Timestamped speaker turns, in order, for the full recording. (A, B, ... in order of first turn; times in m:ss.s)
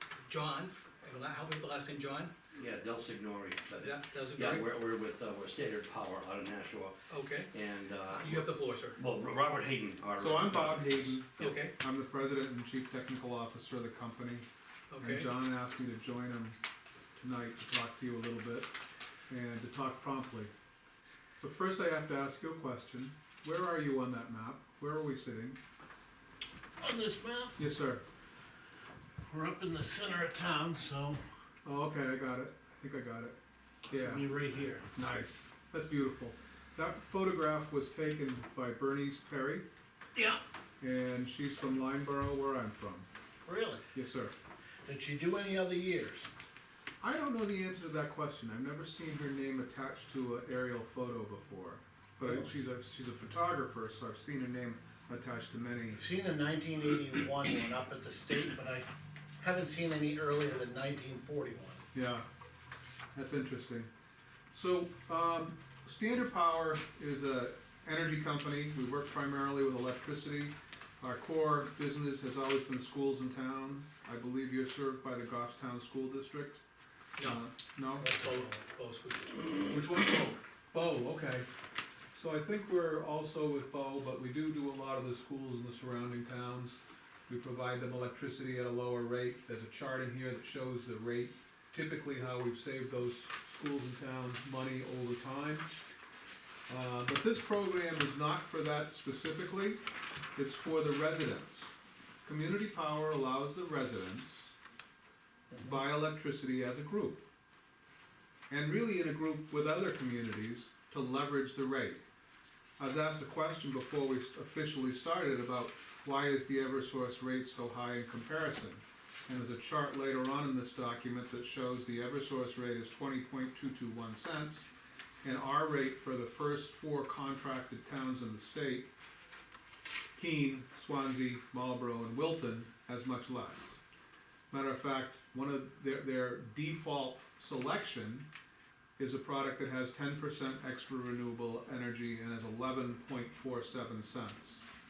0:00.2-0:02.3 A
0:02.5-0:06.9 B
0:03.8-0:04.7 A
0:07.1-0:07.5 A
0:07.5-0:11.1 B
0:08.0-0:09.0 A
0:10.2-0:14.5 C
0:11.4-0:11.7 A
0:14.9-0:15.3 A
0:15.0-0:16.6 C
0:17.2-0:18.7 C
0:19.3-0:20.5 C
0:21.4-0:25.6 C
0:26.8-0:27.6 D
0:27.6-0:28.0 C
0:29.2-0:31.2 D
0:31.6-0:33.4 C
0:33.9-0:34.8 D
0:33.9-0:39.6 C
0:40.1-0:40.4 D
0:40.8-0:43.1 C
0:43.4-0:43.8 D
0:43.9-0:44.3 C
0:44.8-0:46.3 D
0:47.0-0:56.0 C
0:52.2-0:52.5 D
0:55.9-0:58.9 D
0:59.4-1:01.8 D
1:01.9-1:02.2 C
1:03.1-1:03.9 C
1:04.5-1:16.6 C
1:17.2-1:17.4 A
1:17.2-1:18.1 C
1:17.9-1:19.6 A
1:18.0-1:18.6 D
1:19.7-1:21.5 C
1:22.1-1:35.7 C
1:36.7-1:39.8 C
1:40.4-1:41.7 C
1:42.2-1:44.5 C
1:45.5-1:45.8 D
1:45.6-1:47.2 C
1:48.5-1:52.0 C
1:52.8-2:04.7 C
2:05.2-2:08.9 C
2:10.1-2:13.8 C
2:14.5-2:18.3 C
2:19.0-2:24.6 C